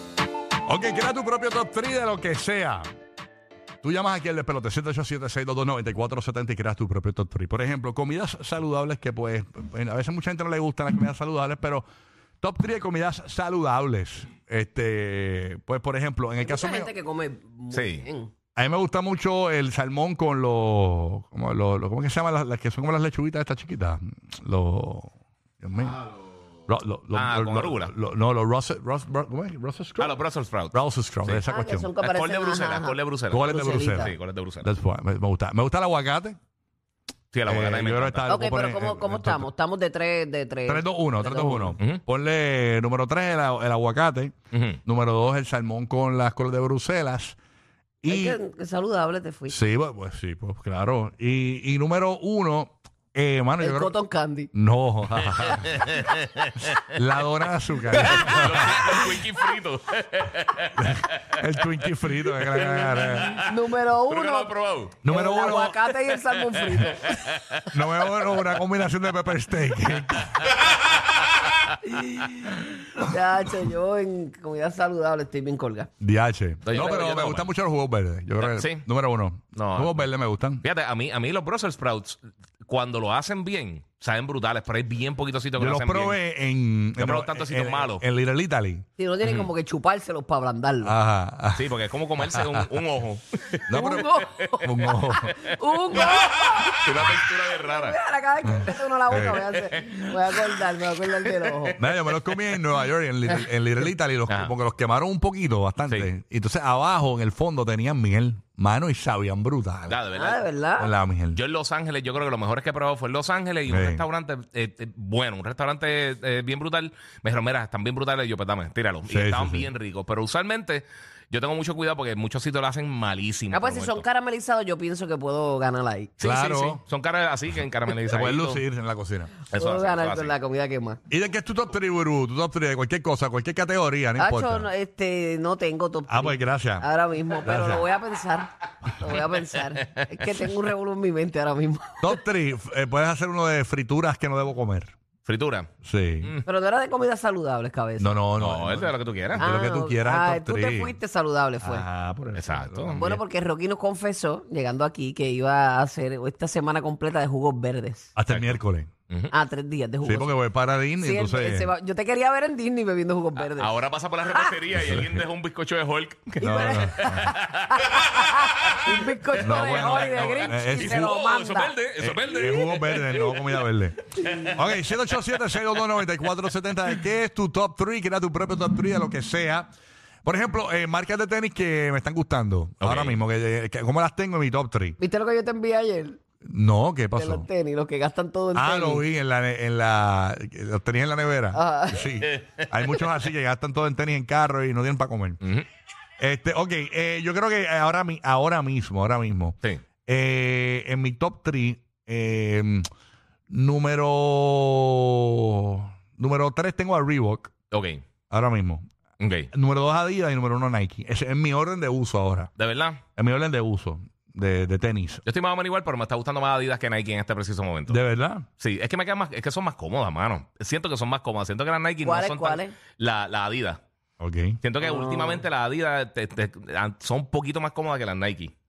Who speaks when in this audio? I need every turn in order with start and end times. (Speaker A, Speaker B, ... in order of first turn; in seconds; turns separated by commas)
Speaker A: 0.7-2.9, Speaker A: 3.8-11.9, Speaker A: 12.4-16.9, Speaker B: 16.4-18.3, Speaker C: 17.7-18.0, Speaker A: 18.6-26.1, Speaker A: 26.7-30.2, Speaker C: 27.1-27.9, Speaker C: 30.0-31.5, Speaker A: 30.7-31.9, Speaker B: 31.5-34.1, Speaker C: 32.0-34.7, Speaker A: 33.3-36.4, Speaker C: 37.3-38.3, Speaker A: 37.5-39.5, Speaker B: 38.3-41.8, Speaker A: 40.7-47.4, Speaker C: 44.5-44.8, Speaker A: 48.0-48.4, Speaker B: 48.1-49.6, Speaker A: 49.5-54.0, Speaker B: 53.6-54.5, Speaker A: 54.5-56.0, Speaker C: 55.3-56.8, Speaker A: 56.8-59.3, Speaker C: 57.9-61.2, Speaker A: 60.8-63.4, Speaker C: 62.1-63.5, Speaker B: 63.4-64.5, Speaker C: 64.1-65.0, Speaker A: 65.0-65.9, Speaker B: 65.1-67.4, Speaker C: 66.7-68.5, Speaker A: 67.7-70.5, Speaker C: 70.3-71.7, Speaker B: 72.0-72.3, Speaker B: 73.0-75.9, Speaker A: 76.0-80.7, Speaker C: 76.7-77.5, Speaker C: 78.4-78.9, Speaker C: 79.5-80.1, Speaker C: 80.6-86.2, Speaker A: 85.6-88.9, Speaker C: 87.0-88.0, Speaker B: 89.0-90.9, Speaker C: 89.2-89.5, Speaker A: 90.8-91.7, Speaker C: 91.5-94.6, Speaker A: 92.2-92.7, Speaker A: 93.7-95.4, Speaker B: 93.7-96.9, Speaker C: 95.3-98.0, Speaker B: 97.7-101.8, Speaker A: 98.5-99.5, Speaker C: 99.3-100.0, Speaker A: 101.8-110.0, Speaker C: 104.3-104.5, Speaker C: 109.9-110.4, Speaker B: 110.2-110.9, Speaker A: 110.8-111.4, Speaker C: 111.3-124.1, Speaker A: 113.7-114.0, Speaker A: 119.1-119.7, Speaker B: 123.5-126.1, Speaker C: 126.2-128.6, Speaker A: 126.2-126.8, Speaker A: 128.0-129.3, Speaker C: 129.5-130.3, Speaker B: 129.6-131.0, Speaker A: 131.1-134.7, Speaker B: 134.2-142.2, Speaker A: 136.1-136.9, Speaker A: 137.4-137.9, Speaker C: 139.9-140.2, Speaker A: 142.0-145.0, Speaker C: 145.2-145.7, Speaker A: 145.8-146.3, Speaker B: 146.4-148.2, Speaker A: 148.0-151.0, Speaker C: 148.4-149.5, Speaker B: 149.4-151.9, Speaker A: 151.6-153.2, Speaker C: 152.4-153.1, Speaker B: 153.0-158.1, Speaker A: 158.2-158.9, Speaker C: 158.3-158.6, Speaker B: 159.3-160.3, Speaker A: 160.0-161.7, Speaker B: 161.0-163.8, Speaker C: 163.4-173.5, Speaker B: 164.3-164.6, Speaker A: 164.7-165.2, Speaker B: 166.4-171.8, Speaker A: 166.4-167.3, Speaker A: 169.4-171.2, Speaker A: 172.0-179.7, Speaker C: 174.2-174.6, Speaker C: 175.1-176.3, Speaker A: 180.2-185.0, Speaker C: 182.8-183.2, Speaker B: 185.0-186.2, Speaker A: 186.4-187.5, Speaker B: 187.2-189.1, Speaker A: 188.5-195.4, Speaker B: 191.5-192.0, Speaker C: 192.3-193.1, Speaker C: 195.4-195.7, Speaker A: 196.2-202.9, Speaker A: 203.5-207.5, Speaker C: 207.7-208.0, Speaker A: 208.3-208.9, Speaker C: 209.2-209.5, Speaker A: 209.5-212.5, Speaker C: 212.6-213.0, Speaker A: 213.2-215.2, Speaker C: 215.2-218.0, Speaker A: 217.9-218.5, Speaker C: 218.6-223.8, Speaker B: 222.0-222.8, Speaker A: 224.2-224.6, Speaker C: 224.6-228.5, Speaker B: 224.8-225.4